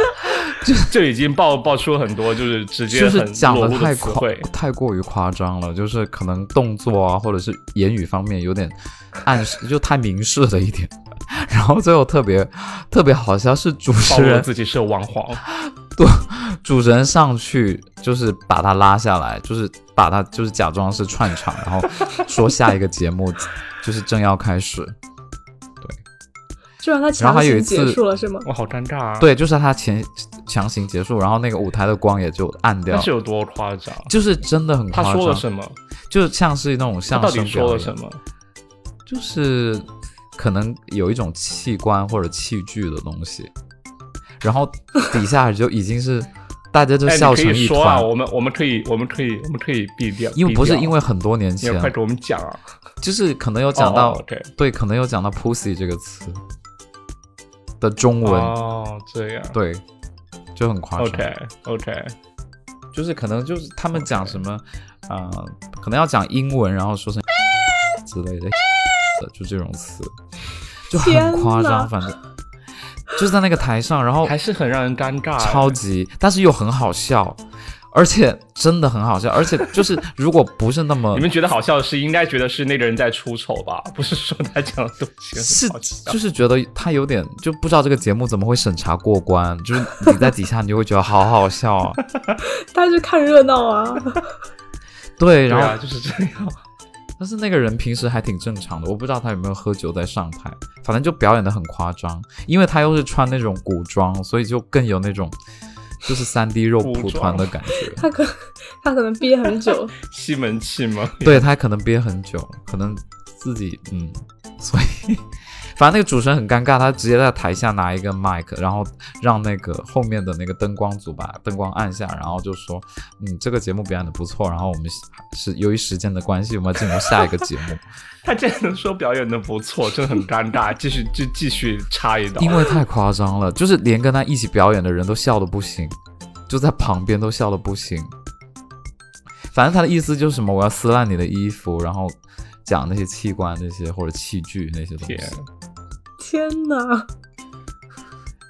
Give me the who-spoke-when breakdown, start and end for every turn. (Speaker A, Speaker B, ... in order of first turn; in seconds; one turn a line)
Speaker A: 0.4-0.9
Speaker B: 0.8-4.5
Speaker A: 2.9-14.5
Speaker B: 14.1-15.4
Speaker A: 15.5-24.9
Speaker C: 26.8-28.5
Speaker A: 27.2-28.0
Speaker B: 28.4-29.3
Speaker A: 29.2-33.1
Speaker B: 32.9-34.1
Speaker A: 34.1-35.4
Speaker B: 34.9-35.8
Speaker A: 36.1-37.9
Speaker B: 37.1-38.2
Speaker A: 39.0-43.5
Speaker A: 44.4-48.1
Speaker B: 47.0-50.9
Speaker A: 50.4-51.9
Speaker B: 51.6-52.6
Speaker A: 53.0-56.4
Speaker B: 53.8-54.5
Speaker A: 57.8-58.5
Speaker B: 58.2-59.6
Speaker A: 59.5-59.8
Speaker A: 60.5-61.3
Speaker B: 61.0-62.1
Speaker A: 62.9-67.2
Speaker B: 63.9-64.4
Speaker A: 68.0-68.6
Speaker A: 69.1-70.1
Speaker A: 70.9-72.2
Speaker C: 70.9-71.9
Speaker A: 73.1-74.3
Speaker B: 74.2-75.8
Speaker A: 75.4-77.4
Speaker A: 77.9-81.3
Speaker B: 81.1-86.2
Speaker A: 85.4-92.0
Speaker C: 92.4-94.2
Speaker A: 95.2-95.8
Speaker B: 95.5-96.6
Speaker A: 97.2-105.3
Speaker A: 106.0-108.1
Speaker B: 106.8-107.5
Speaker C: 107.9-109.9
Speaker B: 110.0-111.4
Speaker A: 111.2-127.8
Speaker B: 128.2-132.7
Speaker A: 132.4-136.0
Speaker A: 136.5-138.1
Speaker A: 139.5-145.3
Speaker B: 145.0-145.4
Speaker C: 146.2-147.1